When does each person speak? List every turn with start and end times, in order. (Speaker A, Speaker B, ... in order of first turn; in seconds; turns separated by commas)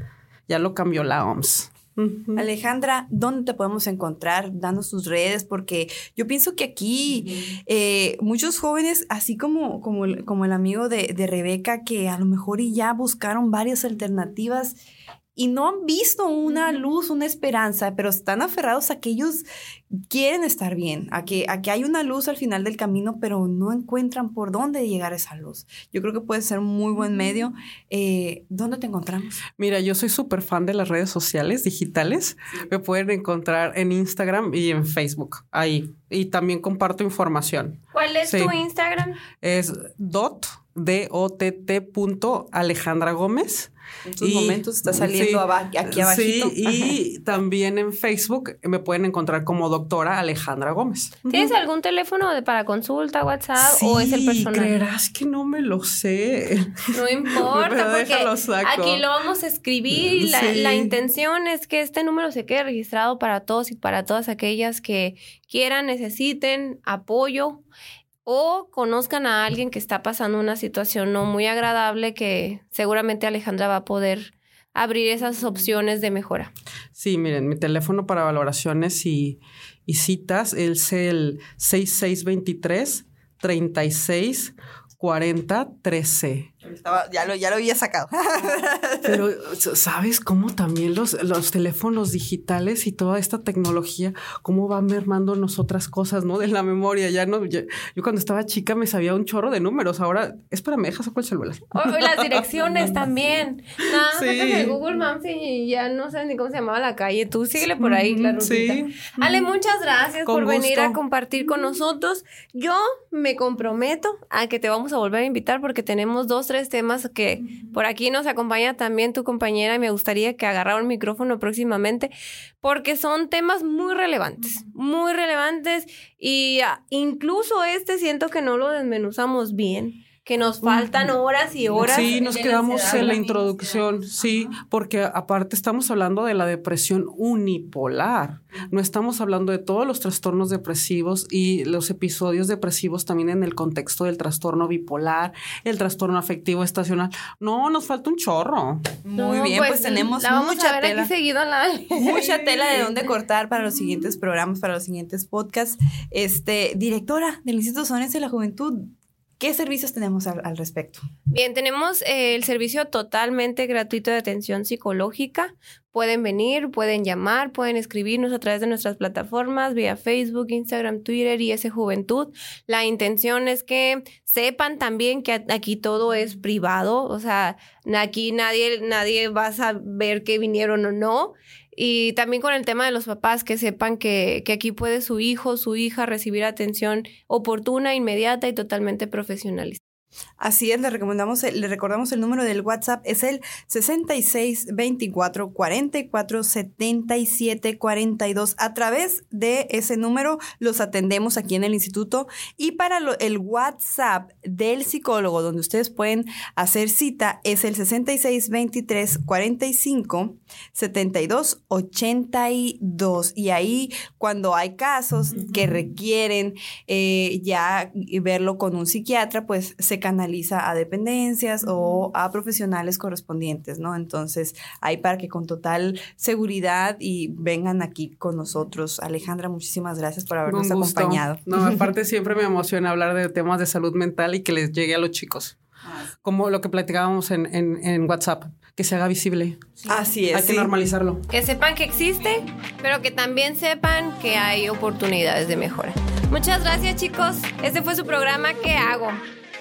Speaker A: 0.5-2.5, Speaker B: 2.4-14.8, Speaker B: 15.3-19.4, Speaker B: 20.1-29.4, Speaker A: 29.6-38.5, Speaker C: 37.9-39.2, Speaker A: 39.4-51.5, Speaker B: 44.0-47.0, Speaker C: 51.3-54.7, Speaker A: 53.6-59.0, Speaker C: 56.9-67.6, Speaker A: 59.9-60.9, Speaker C: 68.2-76.5, Speaker A: 76.9-86.5, Speaker B: 86.6-89.2, Speaker A: 89.0-103.0, Speaker C: 101.7-134.1, Speaker A: 104.1-104.8, Speaker A: 107.7-109.5, Speaker A: 110.2-111.0, Speaker A: 130.6-131.1, Speaker A: 131.8-148.9, Speaker B: 149.0-151.1, Speaker C: 149.2-152.2, Speaker B: 151.9-161.0, Speaker A: 152.1-153.0, Speaker A: 153.8-154.1, Speaker C: 161.3-189.8, Speaker B: 190.4-231.9, Speaker A: 215.3-215.9, Speaker A: 230.4-235.6, Speaker A: 236.2-239.7, Speaker B: 239.9-240.7, Speaker A: 240.3-241.2, Speaker C: 241.3-249.2